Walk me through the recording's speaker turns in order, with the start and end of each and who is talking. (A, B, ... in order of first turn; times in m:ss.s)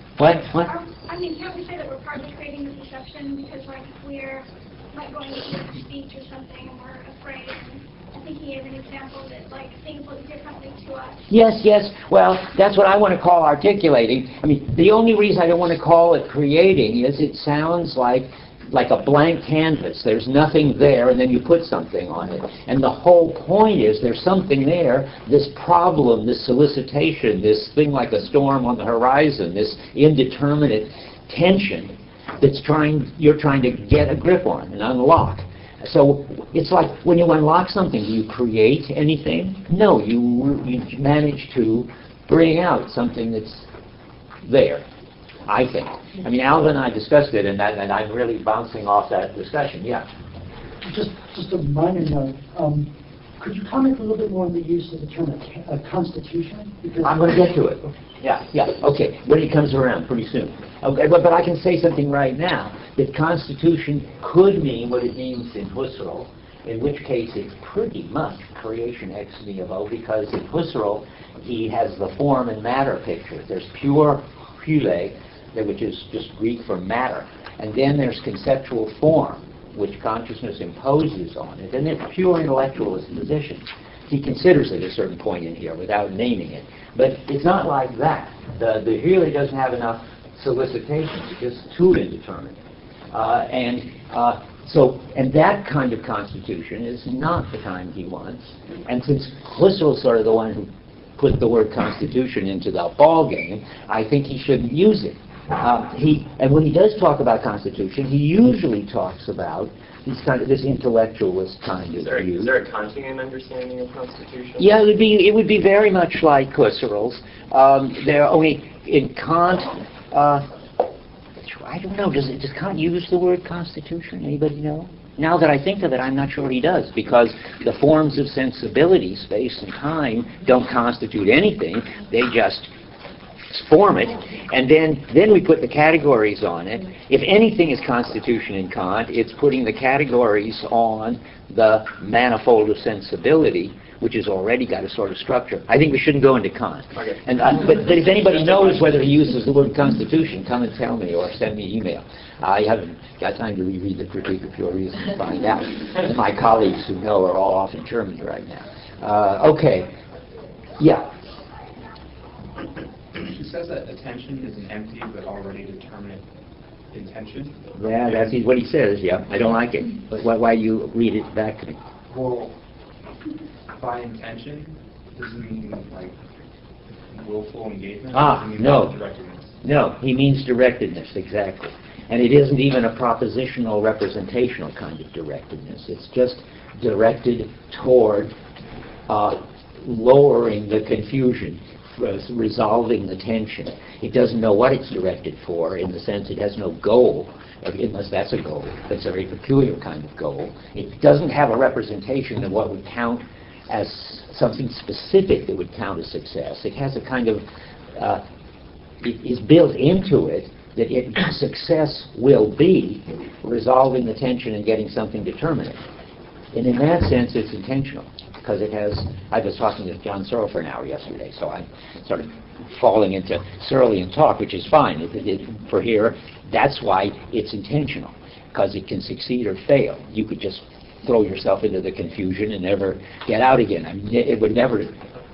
0:00.2-0:00.7 A
0:00.6-0:11.3 B
0:11.3-0:43.7 A
0:44.4-0:44.8 A
0:45.5-0:50.0 A
0:50.8-0:57.4 C
0:57.0-1:32.6 A
1:33.1-1:52.5 A
1:52.0-1:54.7 D
1:54.6-2:00.4 A
2:01.4-2:12.7 A
2:13.5-2:39.9 A
2:40.8-2:41.1 A
2:43.2-2:46.2 E
2:46.9-2:48.4 E
2:47.8-2:51.8 A
2:52.1-2:52.6 E
2:53.8-2:56.2 E
2:57.1-2:59.6 E
2:58.1-2:59.0 A
2:59.6-3:08.3 A
3:09.1-3:27.4 A
3:28.0-3:28.2 A
3:29.0-3:35.8 A
3:36.5-3:55.0 A